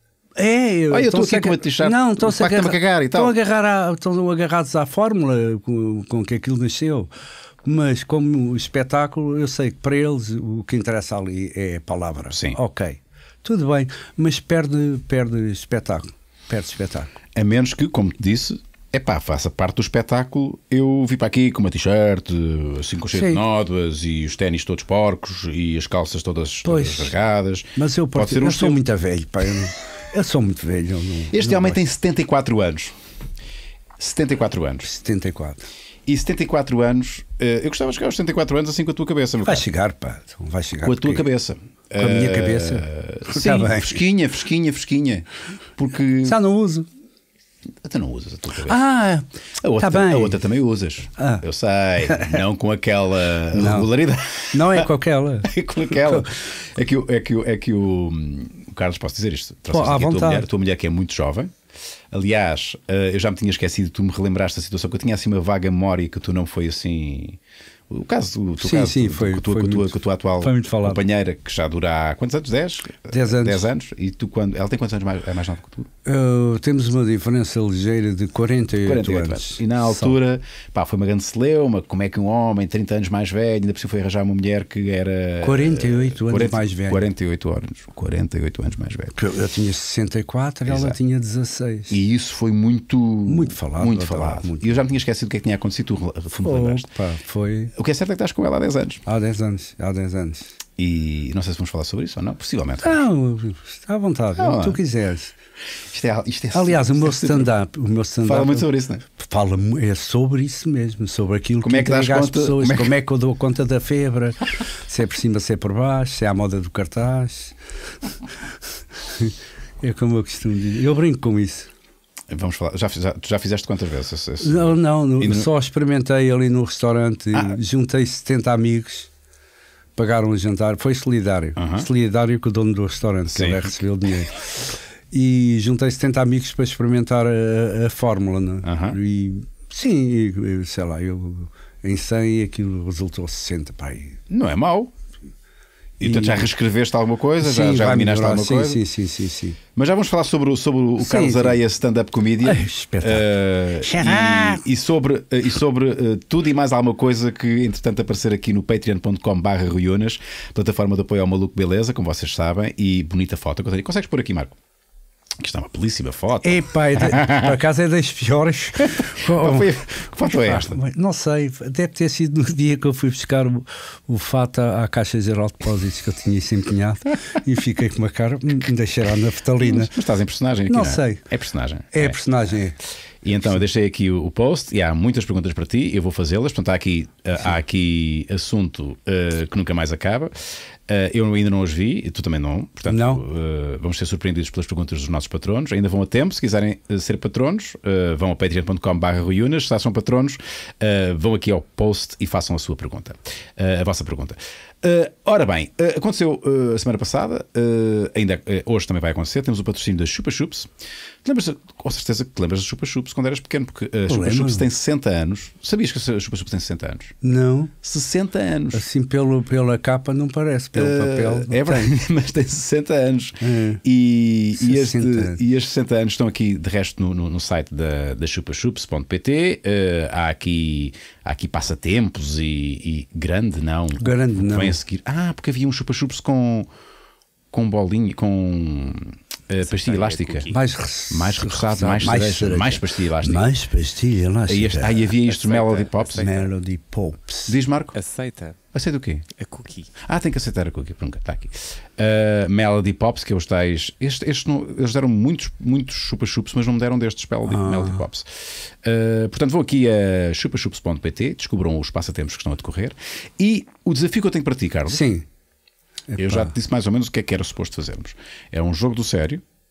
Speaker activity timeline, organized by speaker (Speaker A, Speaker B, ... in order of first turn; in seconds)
Speaker A: 0.4-7.1, 7.7-17.1, 23.1-23.4, 26.6-27.1, 27.8-31.8, 34.8-35.7, 39.4-41.3, 42.0-44.0, 46.2-46.9, 48.6-49.3, 49.8-50.4, 51.2-51.4, 52.0-52.4, 53.5-53.9, 54.5-56.3, 59.7-60.5, 68.6-71.0, 73.1-73.7, 76.0-80.2, 85.4-87.1, 89.1-92.0, 93.3-94.7, 96.4-97.7, 99.0-100.5, 102.8-105.4, 106.5-117.6, 119.0-121.7, 124.4-129.1, 130.0-144.2, 146.0-146.5, 147.4-149.6, 151.0-151.6, 152.4-153.3, 153.8-154.7, 166.4-179.9, 180.7-181.2, 181.9-182.8, 192.9-193.2, 214.1-214.7, 217.2-217.7, 218.7-221.9, 223.4-223.8, 224.6-225.4, 234.0-234.8, 240.5-245.1, 246.1-247.6, 257.4-258.0, 264.9-265.2, 266.1-266.5
Speaker B: 0.9-3.3, 12.3-12.6, 17.4-28.8, 31.3-33.0, 34.0-34.9, 36.1-39.6, 40.8-45.3, 45.8-46.4, 47.8-48.9, 49.6-54.9, 55.5-61.5, 62.1-75.9, 78.8-89.1, 90.7-91.0, 91.9-96.9, 97.8-99.0, 100.8-103.0, 104.4-104.8, 105.9-107.5, 108.2-109.0, 111.6-112.9, 122.3-125.5, 131.6-131.9, 133.3-133.7, 138.7-139.0, 144.3-144.9, 146.0-148.8, 149.8-164.6, 165.4-167.5, 169.3-170.8, 179.6-182.2, 183.2-190.3, 190.9-210.7, 211.2-217.1, 217.8-218.8, 220.7-236.7, 237.5-240.5, 241.1-243.4, 244.5-246.3, 247.5-248.0, 248.7-249.3, 250.0-265.1, 266.2-269.4
Speaker C: 239.6-240.6, 245.3-246.4, 247.9-248.6, 249.4-249.9